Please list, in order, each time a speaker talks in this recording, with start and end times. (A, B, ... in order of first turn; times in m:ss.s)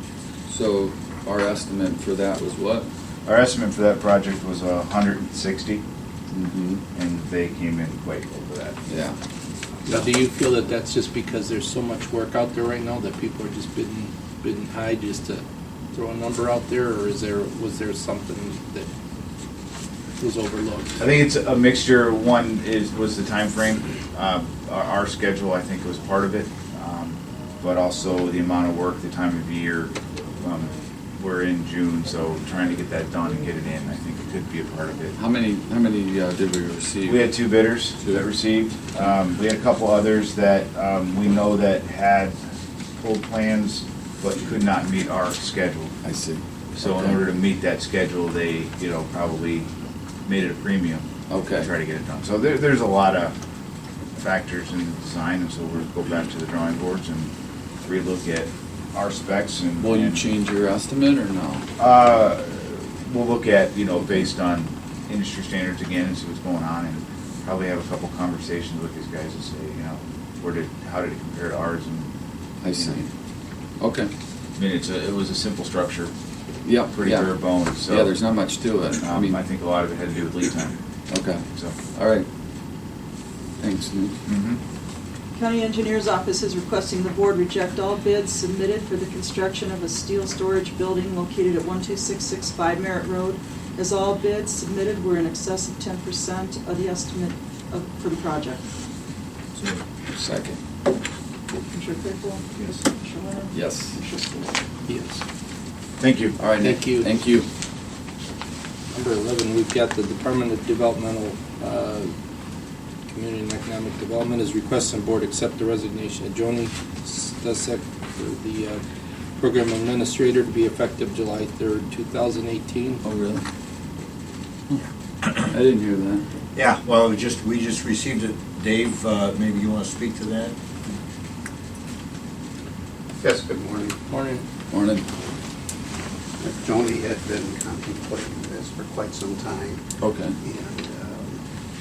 0:00.5-0:02.9 A
0:03.2-0:05.8 B
0:06.3-0:06.8 A
0:06.9-0:08.8 B
0:08.9-0:09.2 A
0:09.9-0:18.9 C
0:20.2-0:21.0 C
0:21.0-0:35.2 B
0:35.2-0:37.3 A
0:37.0-0:42.4 B
0:38.0-0:38.2 A
0:43.0-0:45.9 B
0:46.0-0:47.2 A
0:46.8-0:49.7 B
0:50.3-0:53.3 B
0:51.3-0:51.7 A
0:54.2-0:57.3 B
0:57.8-1:00.2 B
0:59.8-1:01.7 A
1:01.8-1:12.1 B
1:12.6-1:13.1 A
1:12.7-1:13.0 B
1:13.8-1:14.1 A
1:14.6-1:16.1 B
1:16.6-1:19.4 A
1:16.9-1:18.1 B
1:19.0-1:20.8 B
1:21.1-1:22.3 A
1:21.5-1:21.8 B
1:23.6-1:24.2 A
1:24.3-1:24.6 B
1:25.3-1:38.6 D
1:39.6-1:39.8 E
1:40.2-1:40.6 A
1:41.6-1:44.6 D
1:43.5-1:44.0 A
1:44.9-1:45.2 C
1:46.0-1:46.4 B
1:46.4-1:47.5 A
1:46.6-1:47.1 C
1:48.9-1:52.1 C
1:53.1-1:58.8 C
1:59.4-2:03.0 C
2:03.0-2:03.4 A
2:05.4-2:06.2 A
2:06.6-2:10.6 E
2:13.2-2:14.0 F
2:14.1-2:14.4 C
2:14.7-2:15.0 A
2:16.4-2:19.8 F
2:20.0-2:20.4 A
2:20.4-2:21.4 F